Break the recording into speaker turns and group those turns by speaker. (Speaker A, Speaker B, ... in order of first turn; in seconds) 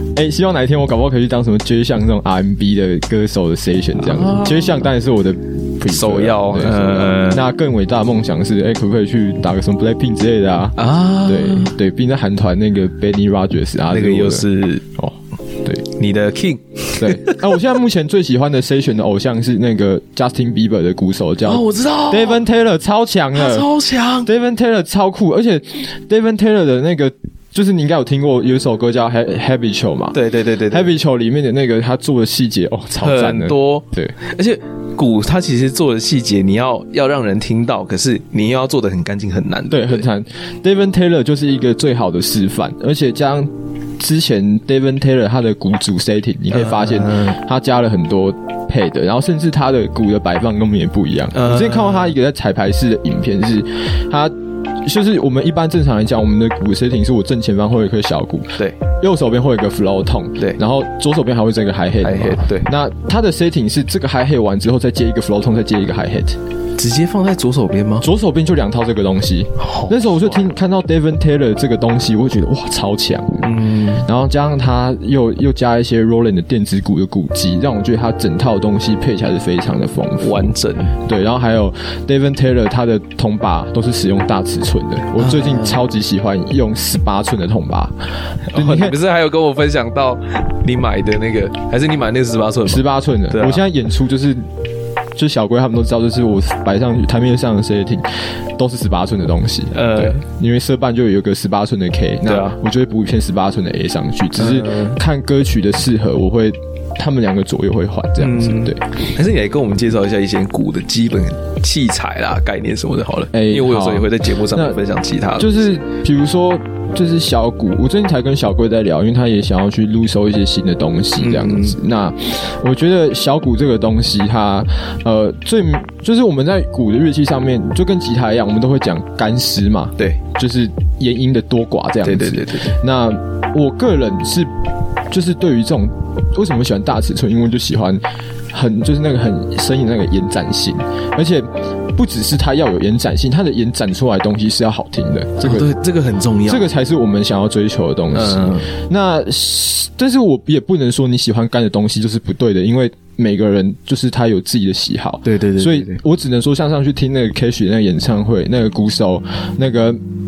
Speaker A: 0.1-14.4, 15.0-15.8, 16.9-23.7, 24.2-30.1, 30.7-34.1, 39.7-66.4, 68.0-73.5, 74.0-80.5, 81.0-88.0, 88.5-89.0, 92.7-94.5, 95.2-108.8, 113.3-114.8, 115.3-134.5, 135.1-145.7, 146.5-160.0
Speaker B: 4.0-4.8, 5.9-7.4, 10.8-11.7, 13.9-14.9, 15.8-17.4, 21.4-22.4, 23.3-24.3, 30.1-30.9, 33.0-40.0, 46.5-47.4, 51.3-52.1, 62.0-62.7, 66.8-68.1, 69.6-70.4, 73.4-74.1, 80.2-81.0, 85.2-85.8, 88.5-93.6, 99.7-100.2, 102.2-102.6, 104.4-105.0, 108.2-115.7, 121.2-121.8, 132.0-132.8, 145.4-146.7, 148.1-148.7, 155.2-156.0